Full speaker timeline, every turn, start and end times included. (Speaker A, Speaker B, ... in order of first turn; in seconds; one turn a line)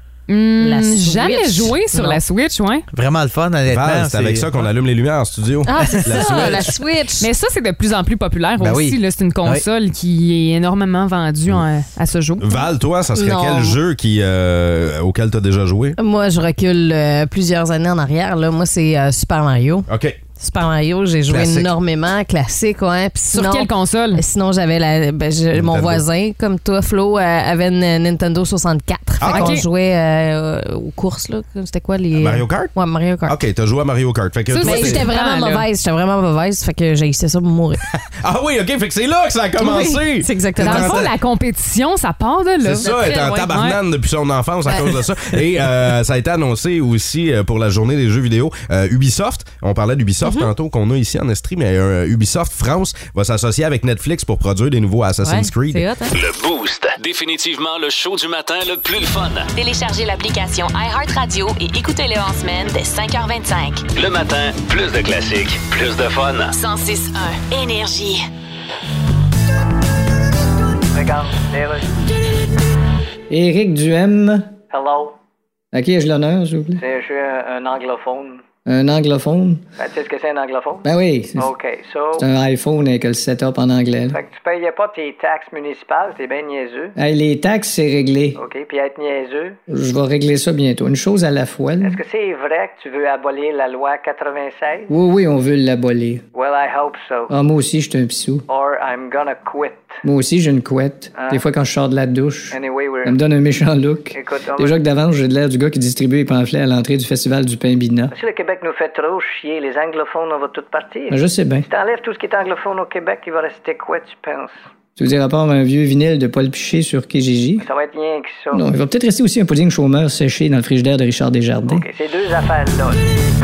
Speaker A: 0.3-2.9
Speaker B: 0.6-2.2
Speaker C: 2.9-4.7
Speaker D: 3.7-6.7
Speaker B: 5.6-7.3
Speaker C: 5.9-6.3
Speaker A: 7.2-12.5
Speaker C: 8.6-9.6
Speaker D: 12.4-16.0
Speaker B: 13.1-13.8
Speaker B: 16.0-33.4
Speaker D: 19.9-20.2
Speaker D: 21.3-21.7
Speaker A: 23.3-24.2
Speaker D: 25.5-26.0
Speaker D: 29.2-29.6
Speaker A: 29.3-29.6
Speaker D: 32.1-32.7
Speaker D: 33.2-35.1
Speaker A: 34.5-35.6
Speaker B: 34.6-37.8
Speaker D: 37.9-41.1
Speaker B: 39.6-41.1
Speaker A: 40.6-43.8
Speaker D: 42.6-55.9
Speaker B: 42.8-43.5
Speaker B: 44.7-45.0
Speaker B: 50.2-50.5
Speaker B: 55.2-56.1
Speaker E: 56.1-59.5
Speaker F: 59.5-63.8
Speaker E: 63.9-66.5
Speaker F: 66.5-68.2
Speaker G: 70.9-71.9
Speaker H: 73.3-74.5
Speaker G: 74.7-75.2
Speaker H: 75.7-76.8
Speaker G: 76.8-78.4
Speaker H: 78.7-79.7
Speaker G: 79.8-82.3
Speaker H: 80.8-81.5
Speaker H: 82.2-84.2
Speaker G: 84.1-86.9
Speaker H: 87.0-88.4
Speaker G: 88.3-89.6
Speaker H: 89.7-92.0
Speaker G: 91.8-94.9
Speaker H: 94.9-96.2
Speaker G: 96.3-97.3
Speaker H: 97.3-98.5
Speaker G: 98.5-100.0
Speaker H: 100.0-108.1
Speaker G: 101.1-101.4
Speaker G: 102.5-103.2
Speaker G: 104.1-104.8
Speaker G: 108.1-114.6
Speaker H: 111.1-111.7
Speaker H: 115.0-117.7
Speaker G: 117.6-118.7
Speaker H: 118.5-121.8
Speaker G: 121.6-123.1